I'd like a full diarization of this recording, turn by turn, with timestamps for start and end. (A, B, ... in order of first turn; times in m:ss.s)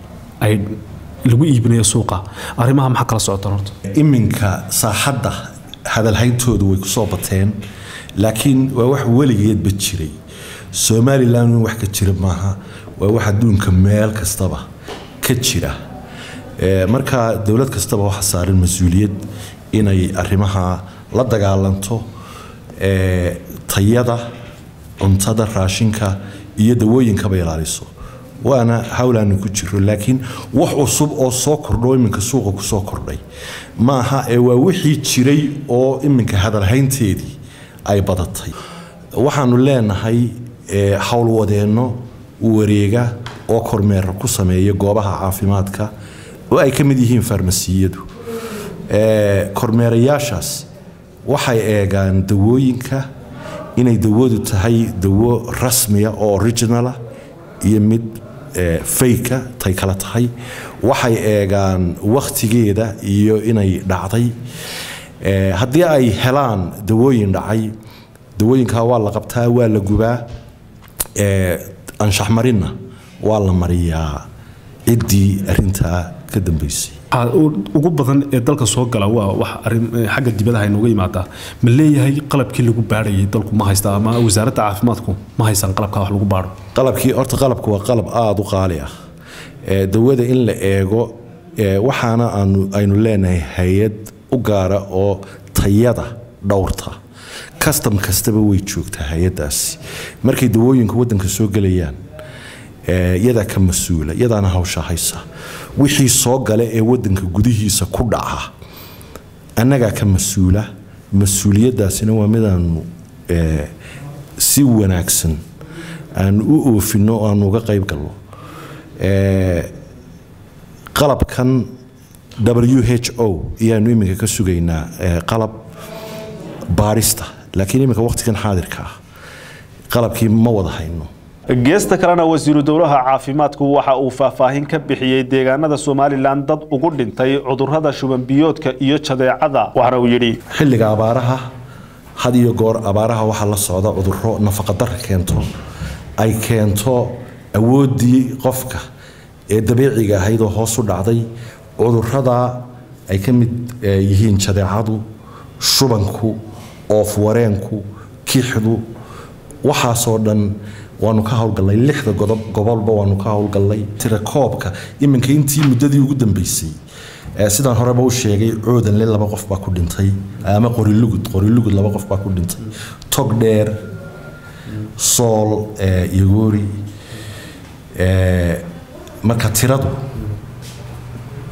0:00.4-0:00.7 A
0:01.3-0:02.2 A
0:01.9-0:03.6 B
0:03.1-0:03.6 A
0:03.9-0:07.6 C
0:08.2-0:10.1 C
0:10.7-0:14.6 C
0:15.2-0:15.8 C
0:16.6-0:22.1 C
0:22.8-0:24.2 C
0:25.0-0:27.9 C
0:28.4-0:33.2 C
0:33.8-0:37.4 C
0:37.9-0:38.5 C
0:39.2-0:45.9 C
0:46.5-0:48.0 C
0:48.9-0:50.7 C
0:51.3-0:53.1 C
0:53.8-0:57.0 C
0:57.6-1:04.3 C
1:05.2-1:07.7 C
1:08.4-1:10.3 C
1:11.2-1:14.2 C
1:14.9-1:17.0 C
1:17.1-1:26.6 A
1:26.8-1:28.9 C
1:29.7-1:37.0 C
1:37.6-1:42.0 C
1:42.9-1:45.2 C
1:45.8-1:48.5 C
1:49.6-1:53.7 C
1:54.4-1:55.4 C
1:56.2-1:58.2 C
1:59.0-1:59.7 C
2:01.0-2:01.7 C
2:02.4-2:05.5 C
2:06.7-2:08.9 C
2:09.9-2:11.1 C
2:11.6-2:20.4 B
2:20.5-2:21.4 C
2:22.2-2:25.5 C
2:26.2-2:28.8 C
2:29.5-2:35.0 C
2:35.6-2:38.8 C
2:39.6-2:46.8 C
2:47.4-2:53.8 C
2:55.0-2:56.8 C
2:58.0-2:58.7 C
2:59.2-3:00.0 C